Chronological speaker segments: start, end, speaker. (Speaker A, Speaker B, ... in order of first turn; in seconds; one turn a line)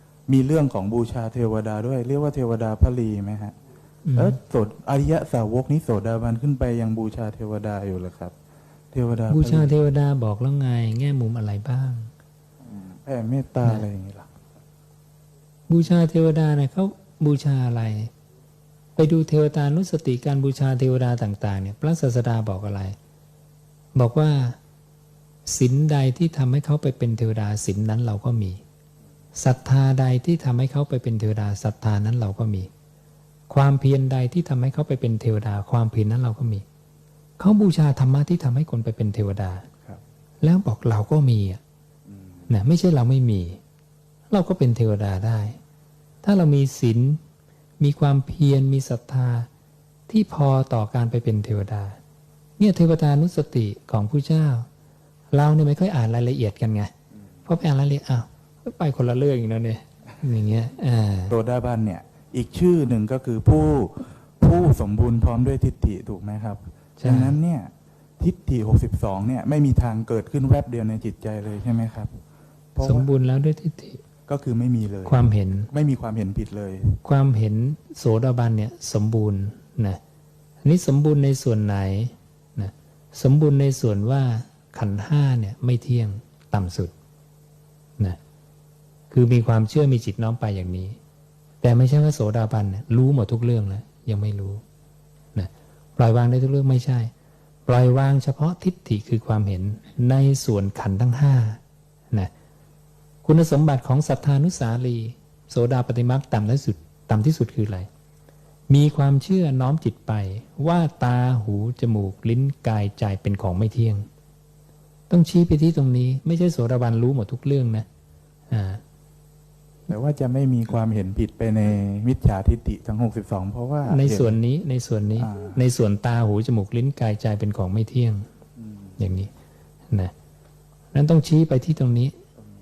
Speaker A: 0.3-3.6
Speaker B: 4.0-4.4
Speaker A: 4.2-8.3
Speaker A: 8.9-9.7
Speaker B: 9.3-12.1
Speaker A: 12.6-14.3
Speaker B: 15.7-18.1
Speaker B: 19.0-23.0
Speaker B: 23.9-24.6
Speaker B: 25.5-28.6
Speaker B: 29.4-32.7
Speaker B: 33.5-36.6
Speaker B: 37.4-39.7
Speaker B: 40.4-41.6
Speaker A: 42.1-42.5
Speaker B: 42.5-43.6
Speaker B: 44.3-45.6
Speaker B: 46.2-47.2
Speaker B: 47.8-49.5
Speaker B: 50.1-52.0
Speaker B: 52.6-54.7
Speaker B: 55.3-56.9
Speaker B: 57.5-61.4
Speaker A: 61.3-72.2
Speaker B: 67.0-67.4
Speaker A: 72.8-73.1
Speaker B: 72.8-74.0
Speaker A: 74.3-77.0
Speaker B: 75.1-75.7
Speaker B: 77.0-80.0
Speaker B: 80.6-86.9
Speaker B: 89.1-91.0
Speaker B: 91.6-94.6
Speaker B: 95.3-97.1
Speaker B: 97.7-102.3
Speaker B: 103.2-107.9
Speaker B: 108.7-114.1
Speaker B: 115.1-117.9
Speaker B: 118.5-118.8
Speaker A: 119.9-124.4
Speaker B: 123.9-128.3
Speaker A: 125.2-125.6
Speaker A: 128.6-129.0
Speaker B: 129.0-129.3
Speaker B: 130.9-132.2